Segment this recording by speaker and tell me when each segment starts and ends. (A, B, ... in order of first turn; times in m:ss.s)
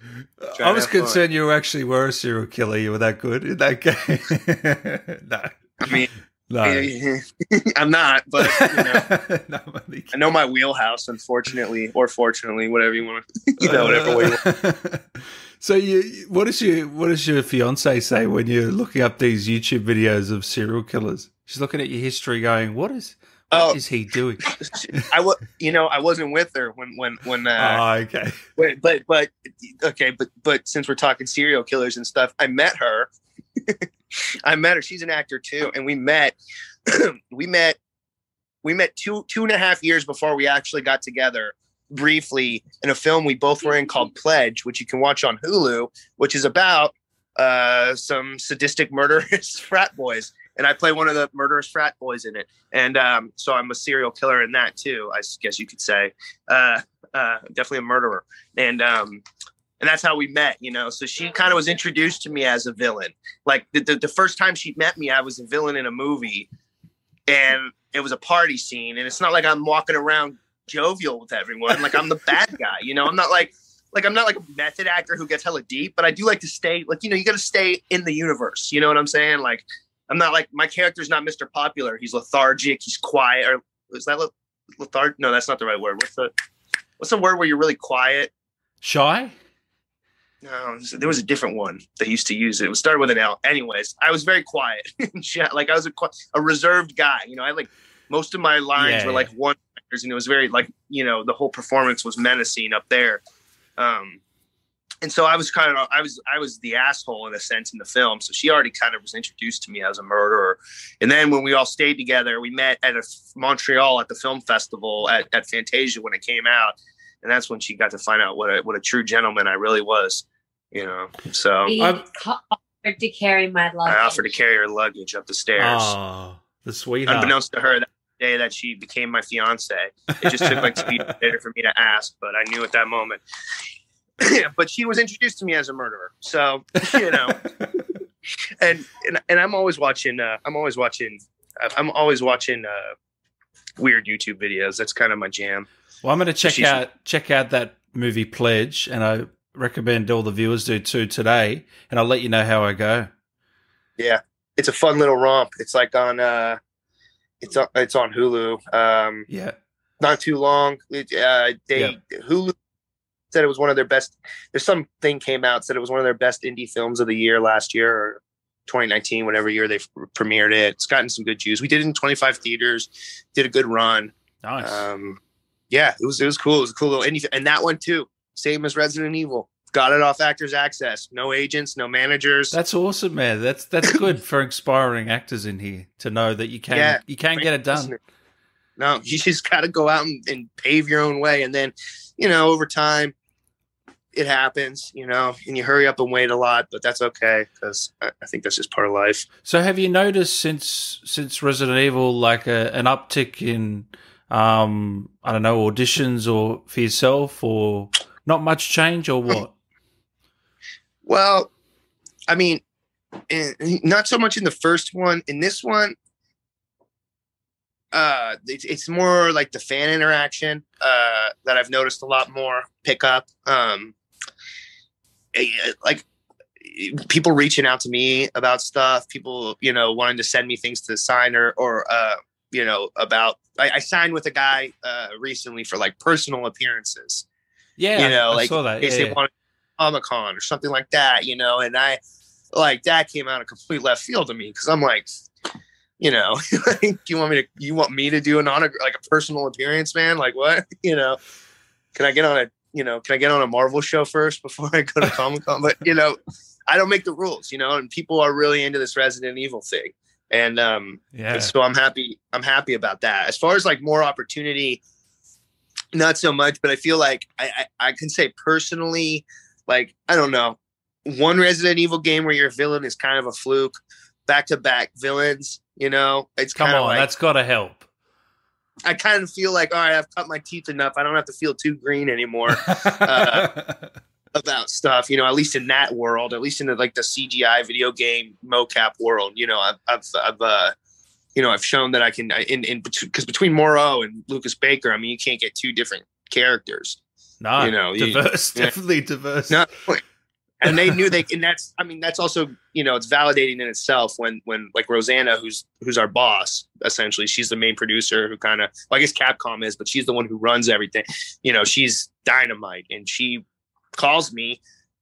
0:00.2-0:06.9 A
0:00.5-0:01.2 B
0:05.8-0:06.1 B
0:06.6-0:09.1 B
0:08.4-0:10.1 A
0:10.1-0:14.4 B
0:13.6-0:25.0 A
0:23.5-0:23.8 B
0:24.4-0:27.8 B
0:27.6-0:28.4 A
0:28.6-0:33.1 B
0:34.4-0:36.4 B
0:36.9-0:37.8 B
0:38.6-0:59.2 B
0:59.8-1:06.5 B
1:07.3-1:26.3 B
1:27.0-1:28.3 B
1:28.8-1:29.4 A
1:30.4-1:43.2 B
1:38.8-1:39.3 A
1:43.8-1:44.2 B
1:45.0-2:01.7 B
2:01.6-2:04.3 C
2:03.9-2:05.9 B
2:05.6-2:07.3 A
2:07.1-2:13.2 B
2:10.1-2:11.2 A
2:14.2-2:17.4 B
2:16.9-2:17.9 A
2:18.6-2:22.9 B
2:23.8-2:25.7 B
2:26.0-2:33.1 A
2:26.4-2:26.8 B
2:34.0-2:36.6 B
2:37.4-2:39.3 B
2:39.3-2:39.6 A
2:40.0-2:42.5 B
2:43.3-2:55.2 B
2:54.4-2:54.8 A
2:55.7-3:02.6 B
3:02.5-3:08.0 A
3:06.7-3:08.0 B
3:08.8-3:13.1 B
3:14.1-3:19.3 B
3:19.4-3:29.5 A
3:31.1-3:31.5 B
3:32.3-3:32.6 B
3:33.3-3:36.0 B
3:37.9-3:43.9 B
3:45.3-3:46.1 B
3:46.6-3:57.3 B
3:57.8-3:59.2 A
3:58.0-4:02.0 B
4:02.5-4:05.1 B
4:06.0-4:11.2 B
4:12.0-4:16.2 B
4:16.7-4:24.8 B
4:21.1-4:21.5 A
4:25.9-4:33.8 B
4:34.3-4:37.1 B
4:36.6-4:37.9 A
4:38.9-4:43.6 B
4:42.5-4:43.9 A
4:44.4-4:50.7 B
4:51.4-4:57.0 B
4:57.4-4:59.6 A
4:57.6-4:58.7 B
4:59.5-5:00.0 B
5:00.6-5:13.4 B
5:00.7-5:01.0 A
5:14.0-5:14.6 B